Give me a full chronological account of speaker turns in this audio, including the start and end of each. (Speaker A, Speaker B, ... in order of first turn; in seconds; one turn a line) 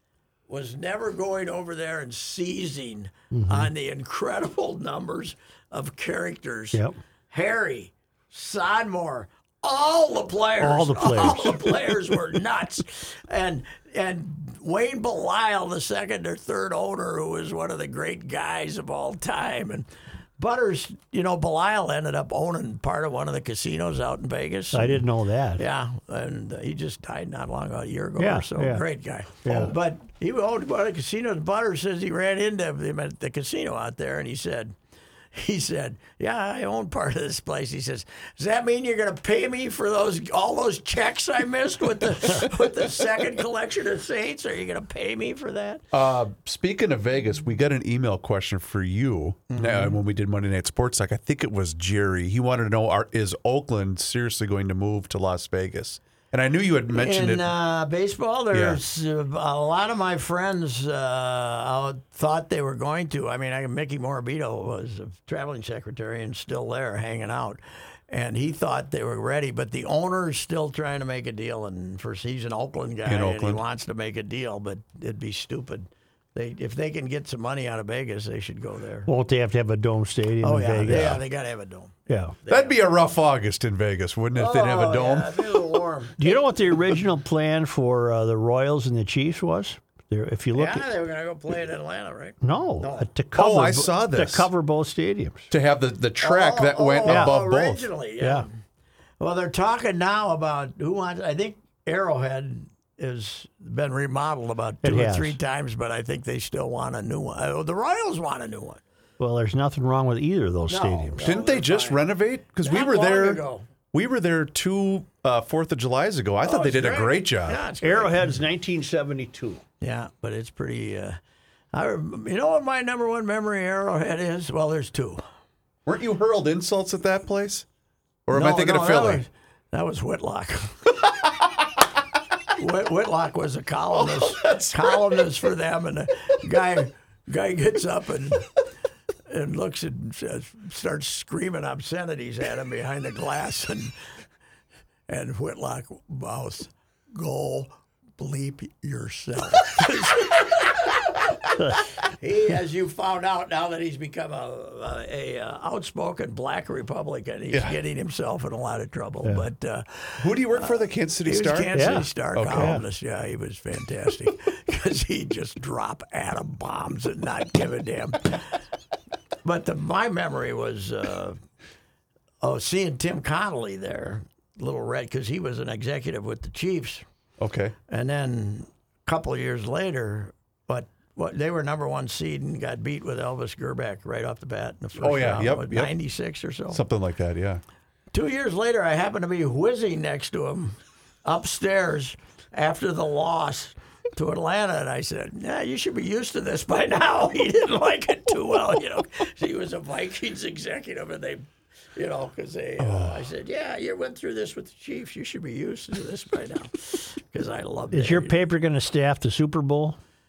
Speaker A: 0.5-19.9
Speaker B: 3.3-3.7
Speaker B: 10.6-11.9
Speaker A: 20.4-25.0
Speaker B: 24.7-25.6
Speaker A: 25.6-34.7
Speaker B: 28.2-28.8
Speaker B: 29.4-29.7
Speaker A: 35.3-45.8
Speaker C: 45.9-57.5
Speaker A: 49.5-50.0
Speaker A: 56.9-79.1
Speaker C: 58.5-58.8
Speaker C: 73.0-73.6
Speaker B: 79.1-81.2
Speaker A: 80.4-82.8
Speaker C: 80.9-81.2
Speaker B: 82.1-82.3
Speaker C: 82.5-85.6
Speaker A: 84.3-86.5
Speaker B: 86.2-90.8
Speaker A: 90.5-93.1
Speaker B: 92.4-95.5
Speaker C: 93.3-94.5
Speaker C: 95.5-97.9
Speaker A: 96.2-98.5
Speaker B: 97.0-97.3
Speaker B: 98.2-98.4
Speaker A: 99.2-108.8
Speaker B: 104.8-105.4
Speaker B: 109.2-111.2
Speaker A: 110.7-112.0
Speaker C: 111.2-113.4
Speaker A: 112.6-113.7
Speaker C: 113.9-117.6
Speaker A: 116.4-118.3
Speaker B: 117.8-119.6
Speaker A: 119.8-121.2
Speaker A: 121.7-125.2
Speaker C: 125.8-127.7
Speaker C: 128.2-129.2
Speaker A: 128.3-130.9
Speaker A: 132.5-138.4
Speaker C: 133.9-135.2
Speaker A: 139.3-143.9
Speaker A: 145.1-150.9
Speaker B: 151.6-151.9
Speaker A: 152.2-168.4
Speaker C: 157.5-157.8
Speaker C: 160.2-161.7
Speaker B: 161.7-162.8
Speaker C: 162.3-162.7
Speaker A: 169.4-171.4
Speaker A: 172.4-177.0
Speaker C: 177.4-177.7
Speaker A: 177.9-186.8
Speaker C: 185.0-185.9
Speaker C: 186.7-187.6
Speaker A: 188.1-208.3
Speaker C: 202.8-203.2
Speaker B: 207.9-210.0